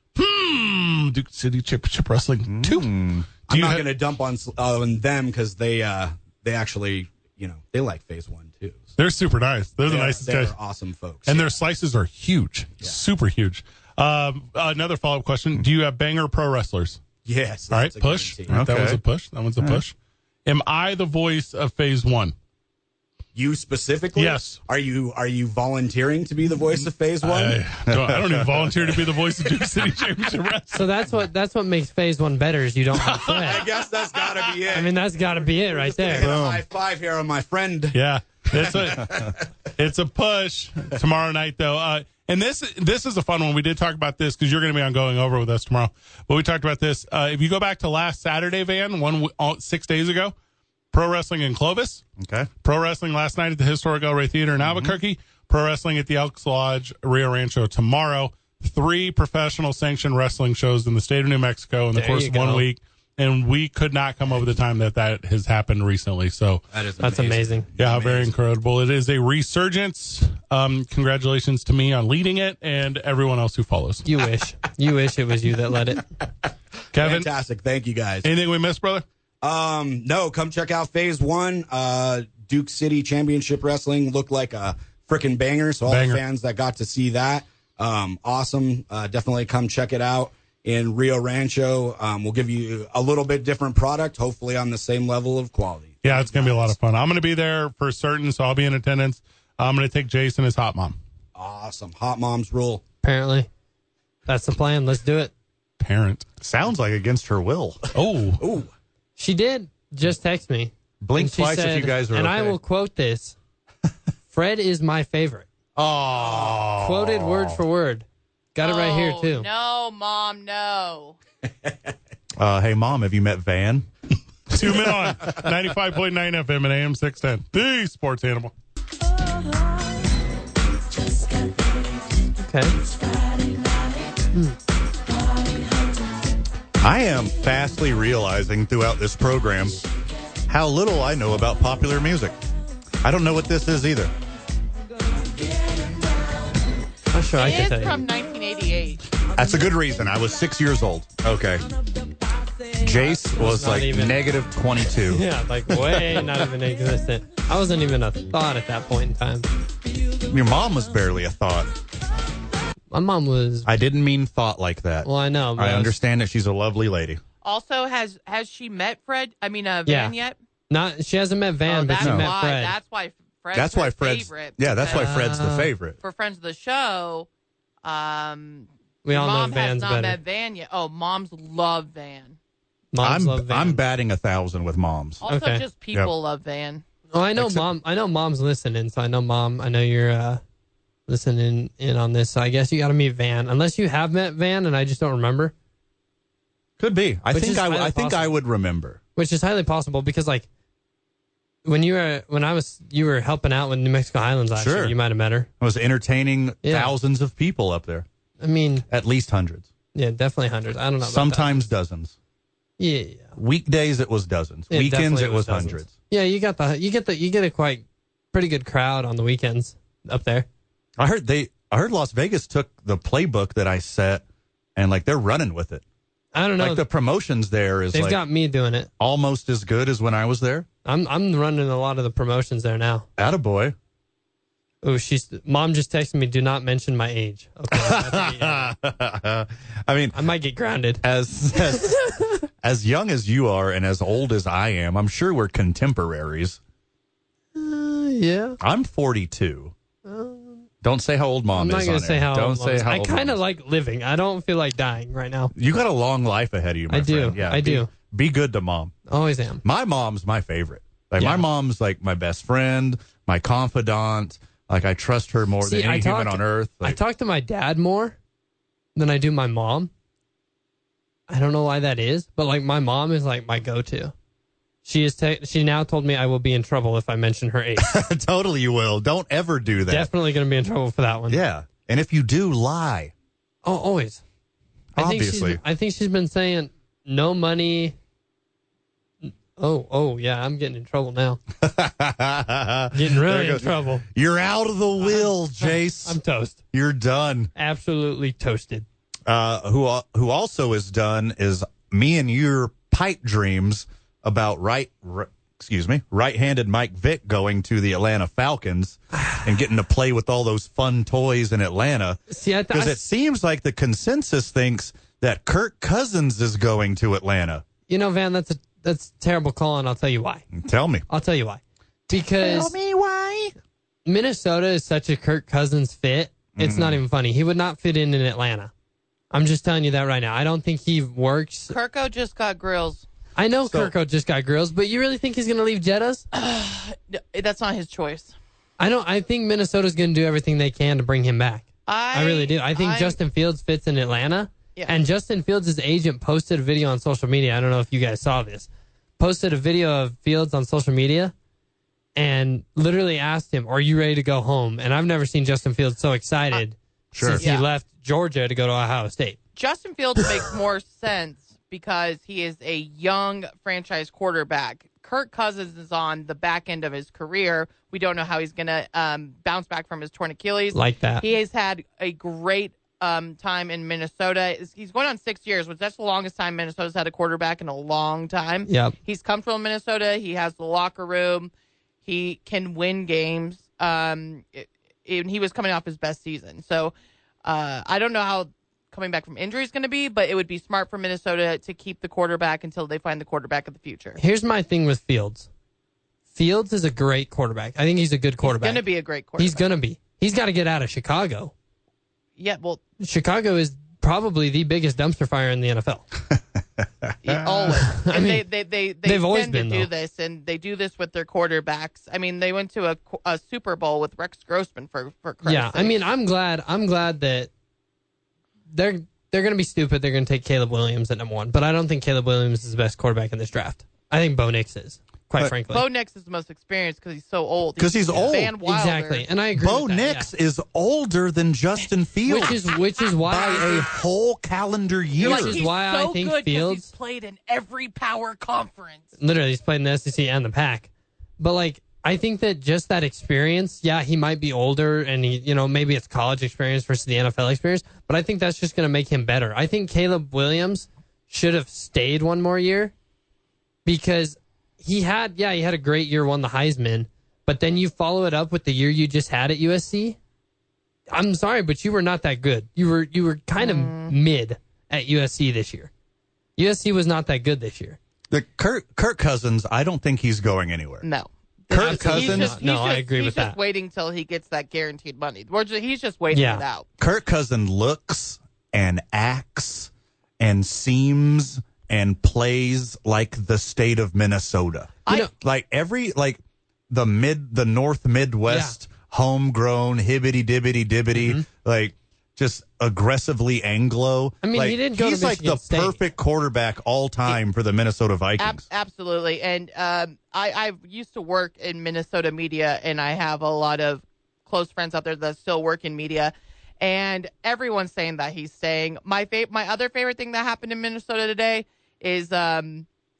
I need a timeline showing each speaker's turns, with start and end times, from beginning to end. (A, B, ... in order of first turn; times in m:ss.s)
0:00.2-0:02.9 A
0:02.4-0:03.3 B
0:03.5-0:03.9 A
0:03.5-0:08.9 C
0:09.0-0:10.5 A
0:09.8-0:11.5 C
0:11.2-0:17.0 A
0:17.2-0:18.6 C
0:17.7-0:19.9 A
0:18.5-0:19.0 B
0:20.4-0:22.3 A
0:23.3-0:27.6 C
0:24.1-0:24.6 A
0:27.2-0:30.9 A
0:27.8-0:28.8 B
0:30.7-0:33.6 D
0:33.0-0:34.5 A
0:33.4-0:34.9 C
0:34.7-0:36.3 D
0:35.8-0:38.0 C
0:36.2-0:36.6 B
0:37.9-0:50.3 A
0:38.5-0:39.4 C
0:50.9-0:52.0 A
0:52.2-0:52.5 B
0:52.6-1:06.6 A
0:54.6-0:55.0 B
1:01.9-1:02.6 D
1:06.7-1:08.3 C
1:07.0-1:07.6 D
1:07.8-1:14.0 A
1:14.0-1:16.1 D
1:16.9-1:17.3 A
1:16.9-1:18.3 C
1:18.2-1:19.0 A
1:19.4-1:36.7 C
1:25.9-1:26.2 A
1:36.0-1:41.0 A
1:41.3-1:42.8 C
1:43.0-1:43.5 D
1:44.3-1:45.3 D
1:45.8-1:46.2 A
1:46.4-1:47.8 B
1:47.9-1:48.4 A
1:48.4-1:48.7 C
1:49.2-1:53.4 D
1:51.0-1:52.6 B
1:54.3-1:55.5 D
1:55.8-1:57.6 B
1:56.2-1:56.6 C
1:56.8-1:59.5 D
1:58.6-2:01.2 E
2:02.4-2:03.9 B
2:04.5-2:08.5 A
2:12.4-2:12.8 D
2:16.8-2:19.8 B
2:20.4-2:22.3 B
2:23.0-2:24.1 B
2:27.1-2:28.0 D
2:27.4-2:29.0 E
2:29.2-2:31.6 B
2:32.8-2:36.4 B
2:32.9-2:34.2 D
2:35.0-2:39.5 D
2:40.2-2:41.7 B
2:42.9-2:43.7 D
2:43.6-2:47.2 B
2:45.0-2:46.0 D
2:47.4-2:50.4 E
2:49.8-2:50.2 D
2:50.7-2:52.8 D
2:51.6-2:55.2 E
2:52.0-2:52.3 B
2:53.5-2:56.0 B
2:54.8-2:55.7 D
2:56.0-2:57.3 E
2:57.8-3:02.4 E
2:59.0-3:00.2 D
3:02.9-3:03.8 D
3:03.0-3:05.2 B
3:05.2-3:06.8 E
3:05.2-3:05.6 D
3:07.1-3:10.4 D
3:07.4-3:07.7 B
3:11.1-3:15.5 D
3:16.8-3:19.0 B
3:17.3-3:18.4 D
3:19.2-3:20.5 D
3:21.6-3:25.5 D
3:24.5-3:25.0 B
3:25.6-3:28.0 B
3:26.6-3:26.9 D
3:28.4-3:28.8 D
3:28.9-3:29.7 B
3:29.9-3:31.7 D
3:31.0-3:32.1 B
3:32.8-3:33.3 D
3:33.4-3:35.9 B
3:34.7-3:40.5 D
3:41.0-3:44.2 B
3:44.8-3:45.8 B
3:46.3-3:46.8 D
3:46.6-3:48.2 B
3:47.9-3:48.9 D
3:49.0-3:50.7 B
3:50.8-3:53.1 D
3:53.2-3:53.7 B
3:54.8-3:58.7 D
3:57.7-4:00.2 B
4:00.1-4:01.0 D
4:01.0-4:02.0 B
4:01.6-4:02.4 D
4:02.6-4:06.6 B
4:07.5-4:08.6 D
4:08.6-4:09.7 B
4:10.0-4:10.6 D
4:10.8-4:13.4 B
4:11.5-4:15.5 D
4:15.5-4:18.9 B
4:16.9-4:17.9 D
4:19.1-4:19.6 D
4:19.6-4:27.0 B
4:21.2-4:21.4 D
4:25.6-4:28.2 D
4:29.0-4:29.9 D
4:31.3-4:34.1 D
4:34.8-4:38.0 D
4:37.8-4:40.1 B
4:39.9-4:41.4 D
4:41.3-4:43.1 B
4:43.6-4:44.2 D
4:44.9-4:45.6 B
4:45.0-4:47.9 D
4:49.2-4:51.4 D
4:51.6-4:56.2 B
4:52.9-4:54.0 D
4:55.0-4:56.6 D
4:56.7-4:57.5 B
4:57.5-4:58.8 D
4:59.3-5:12.2 B
5:09.1-5:09.4 D
5:12.3-5:13.0 D
5:12.7-5:17.6 B
5:17.9-5:20.4 D
5:20.5-5:21.0 B
5:21.1-5:22.7 D
5:22.1-5:23.5 B
5:24.0-5:28.7 D
5:26.6-5:27.0 B
5:29.3-5:31.8 D
5:31.7-5:33.0 E
5:33.4-5:36.2 D
5:33.6-5:33.9 B
5:36.3-5:38.3 E
5:38.8-5:51.3 D
5:41.9-5:43.2 E
5:52.2-5:59.4 D
5:57.1-5:57.4 B
5:57.4-5:57.6 E
5:59.6-6:21.5 E
6:10.7-6:11.3 D
6:18.7-6:19.0 D
6:22.0-6:34.2 E
6:34.2-6:35.5 D
6:36.3-6:38.8 D
6:38.4-6:39.7 E
6:39.4-6:41.5 D
6:42.4-6:42.8 E
6:43.0-6:46.0 D
6:46.8-6:47.4 B
6:47.2-6:56.0 E
6:47.9-6:48.4 D
6:49.0-6:49.9 D
6:55.4-6:57.5 D
6:58.7-7:05.9 D
7:05.6-7:09.3 E
7:07.8-7:08.5 B
7:08.1-7:10.3 D
7:09.5-7:12.6 B
7:12.2-7:13.9 D
7:13.2-7:15.6 B
7:15.2-7:19.1 E
7:15.2-7:16.9 D
7:19.2-7:32.9 D
7:33.8-7:40.2 D
7:41.1-7:45.9 D
7:43.6-7:44.2 E
7:46.6-7:48.0 D
7:48.3-7:51.0 B
7:51.0-7:56.8 E
7:51.7-7:52.6 B
7:51.7-7:53.6 D
7:56.3-7:56.6 D
7:57.0-8:18.6 B
8:08.5-8:08.8 D
8:11.1-8:11.4 D
8:14.4-8:16.0 D
8:18.4-8:32.8 E